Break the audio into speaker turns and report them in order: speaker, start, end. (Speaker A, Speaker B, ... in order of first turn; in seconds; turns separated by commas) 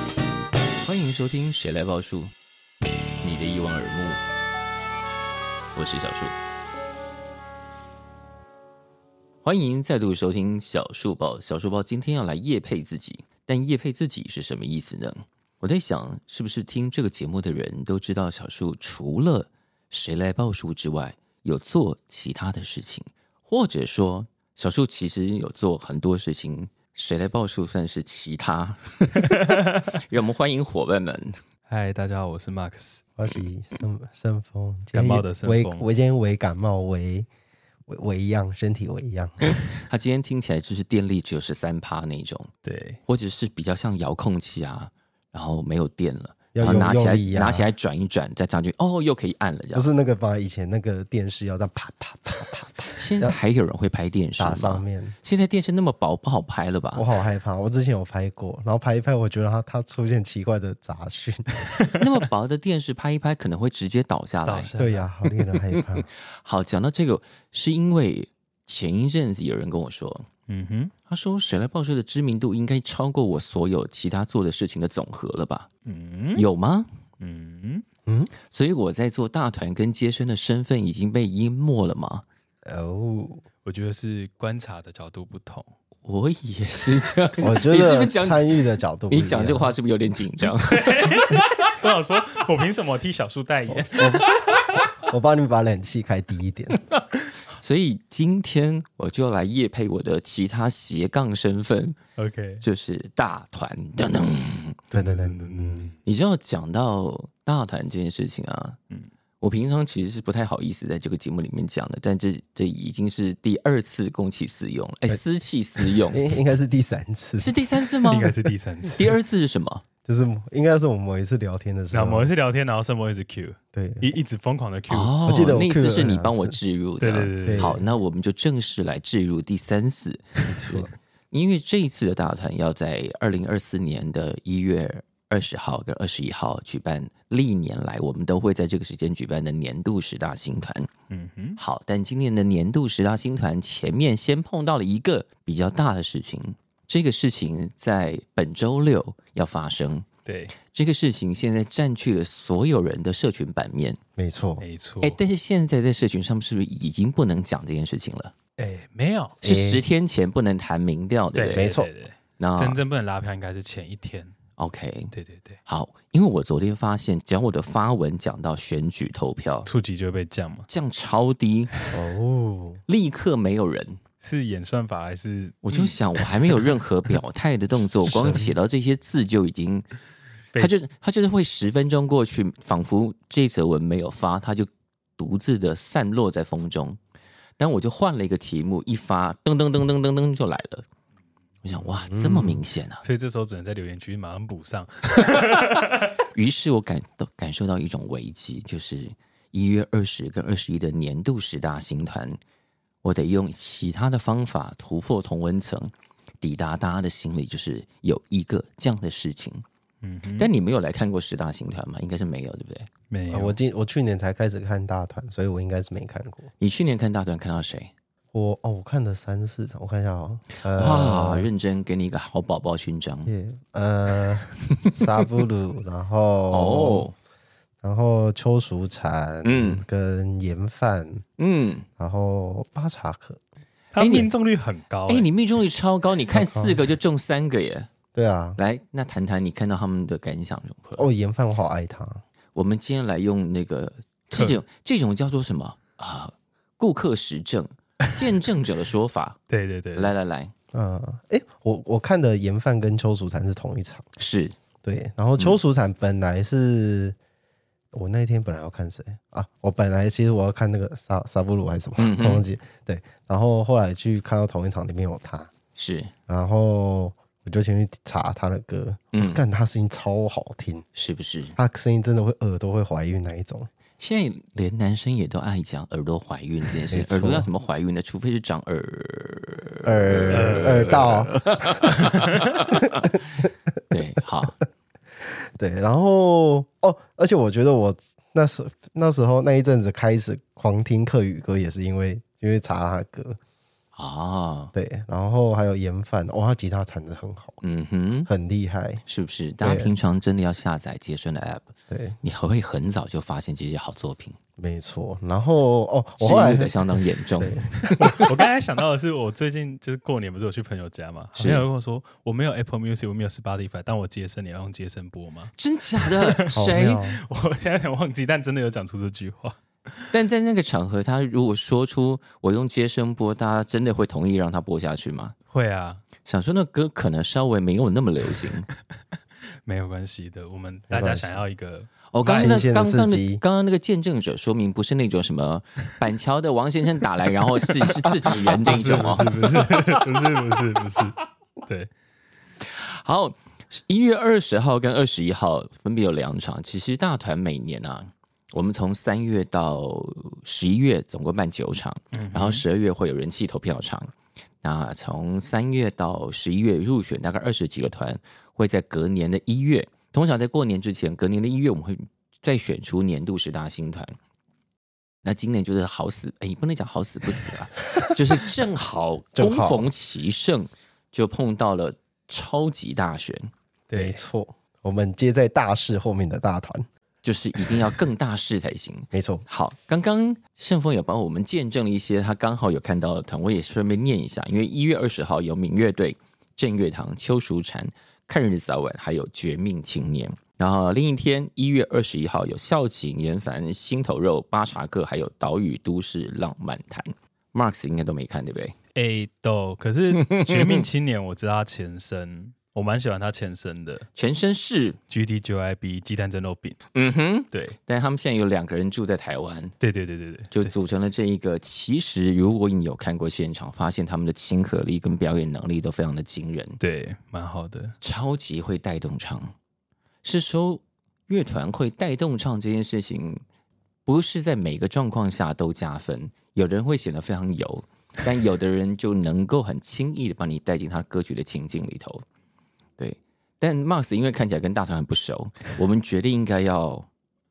Speaker A: 0.8-2.3, Speaker A: 3.2-4.2, Speaker A: 5.7-6.4, Speaker A: 9.4-31.4, Speaker B: 29.2-29.8, Speaker B: 31.7-33.0, Speaker C: 33.2-37.3, Speaker B: 34.9-35.9, Speaker C: 37.9-39.5, Speaker A: 39.6-42.5, Speaker B: 42.6-43.0, Speaker A: 43.0-49.9, Speaker C: 46.5-47.7, Speaker C: 49.7-53.4, Speaker A: 53.0-57.1, Speaker C: 54.4-55.1, Speaker C: 56.9-61.5, Speaker A: 62.0-64.7, Speaker B: 64.5-65.1, Speaker C: 64.8-66.0, Speaker A: 65.7-70.3, Speaker B: 70.5-70.9, Speaker A: 71.1-75.7, Speaker B: 75.8-76.4, Speaker A: 76.3-76.9, Speaker B: 77.2-77.8, Speaker C: 78.1-78.3, Speaker A: 78.5-82.2, Speaker C: 82.7-83.4, Speaker B: 83.6-85.7, Speaker A: 86.0-88.6, Speaker C: 87.4-89.7, Speaker A: 89.1-91.2, Speaker B: 90.7-94.6, Speaker C: 93.7-94.2, Speaker C: 94.9-96.8, Speaker A: 97.0-102.0, Speaker B: 102.2-102.6, Speaker A: 102.6-104.8, Speaker C: 104.9-105.9, Speaker B: 104.9-105.9, Speaker A: 106.0-108.8, Speaker A: 109.4-116.2, Speaker C: 116.1-117.5, Speaker A: 117.4-118.3, Speaker B: 118.1-119.1, Speaker A: 119.0-119.8, Speaker C: 120.0-122.3, Speaker B: 121.9-125.2, Speaker C: 123.7-124.1, Speaker A: 124.9-140.9, Speaker C: 125.2-126.5, Speaker B: 127.0-127.8, Speaker C: 127.4-127.8, Speaker C: 130.5-130.9, Speaker B: 141.1-141.6, Speaker A: 141.6-150.1, Speaker B: 150.2-150.5, Speaker A: 150.7-154.0, Speaker C: 154.2-154.6, Speaker B: 154.6-155.2, Speaker A: 155.0-158.3, Speaker B: 158.6-159.4, Speaker C: 159.4-159.8, Speaker A: 159.4-161.7, Speaker B: 161.3-164.3, Speaker C: 161.5-161.9, Speaker A: 162.4-162.8, Speaker A: 164.6-165.1, Speaker B: 165.1-165.6, Speaker A: 165.7-169.7, Speaker B: 169.7-170.7, Speaker A: 170.7-171.7, Speaker C: 171.9-172.8, Speaker A: 172.9-174.0, Speaker B: 174.2-176.6, Speaker A: 175.6-179.9, Speaker B: 178.1-178.4, Speaker C: 178.3-178.5, Speaker A: 180.6-187.0, Speaker A: 187.6-190.8, Speaker A: 191.6-193.0, Speaker C: 192.1-192.6, Speaker B: 193.0-196.2, Speaker A: 196.2-202.4, Speaker A: 203.0-209.6, Speaker B: 210.0-210.5, Speaker A: 210.4-212.9, Speaker B: 213.1-213.6, Speaker C: 213.3-216.5, Speaker A: 216.6-217.9, Speaker C: 218.3-221.5, Speaker A: 220.7-223.3, Speaker C: 223.2-227.1, Speaker A: 226.5-227.1, Speaker C: 227.8-231.2, Speaker A: 229.4-229.8, Speaker A: 231.4-231.8, Speaker C: 232.0-233.4, Speaker B: 233.9-235.3, Speaker A: 234.0-234.3, Speaker A: 235.1-237.9, Speaker C: 236.3-236.8, Speaker C: 238.1-238.6, Speaker A: 238.6-241.1, Speaker C: 241.0-242.2, Speaker A: 242.5-249.4, Speaker B: 249.5-250.1, Speaker A: 249.9-250.5, Speaker C: 250.7-254.0, Speaker A: 254.2-254.6, Speaker C: 254.8-257.1, Speaker C: 257.9-265.5, Speaker A: 262.0-262.4, Speaker A: 265.7-266.1, Speaker C: 266.3-270.8, Speaker A: 269.1-269.4, Speaker A: 270.9-271.6, Speaker C: 271.6-273.7, Speaker A: 274.0-283.0, Speaker C: 276.9-277.5, Speaker C: 279.8-281.8, Speaker B: 280.3-282.4, Speaker A: 283.9-284.6, Speaker C: 285.6-293.4, Speaker A: 293.9-294.7, Speaker C: 294.7-297.6, Speaker A: 297.6-298.3, Speaker C: 298.2-299.0, Speaker A: 299.1-304.4, Speaker C: 299.6-299.9, Speaker C: 301.9-302.2, Speaker C: 304.6-308.0, Speaker A: 306.2-308.1, Speaker B: 308.0-320.1, Speaker C: 311.4-311.6, Speaker A: 315.6-317.0, Speaker C: 316.6-317.2, Speaker A: 320.1-325.4, Speaker B: 325.5-326.0, Speaker A: 326.2-328.7, Speaker B: 329.6-332.7, Speaker C: 330.9-331.4, Speaker A: 332.1-339.3, Speaker C: 332.2-333.4, Speaker B: 338.3-341.9, Speaker A: 342.6-364.1, Speaker B: 352.1-352.6, Speaker A: 365.2-373.5, Speaker C: 369.3-369.9, Speaker B: 373.9-374.2, Speaker C: 373.9-376.8, Speaker A: 377.2-398.7, Speaker C: 379.1-379.4, Speaker B: 398.9-404.1, Speaker A: 400.2-400.8, Speaker A: 404.1-405.0, Speaker B: 405.1-406.8, Speaker A: 406.9-409.7, Speaker B: 409.8-410.7, Speaker A: 410.5-416.8, Speaker B: 416.8-417.9, Speaker A: 418.0-419.5, Speaker A: 420.2-423.4, Speaker A: 424.1-432.2, Speaker A: 433.0-437.1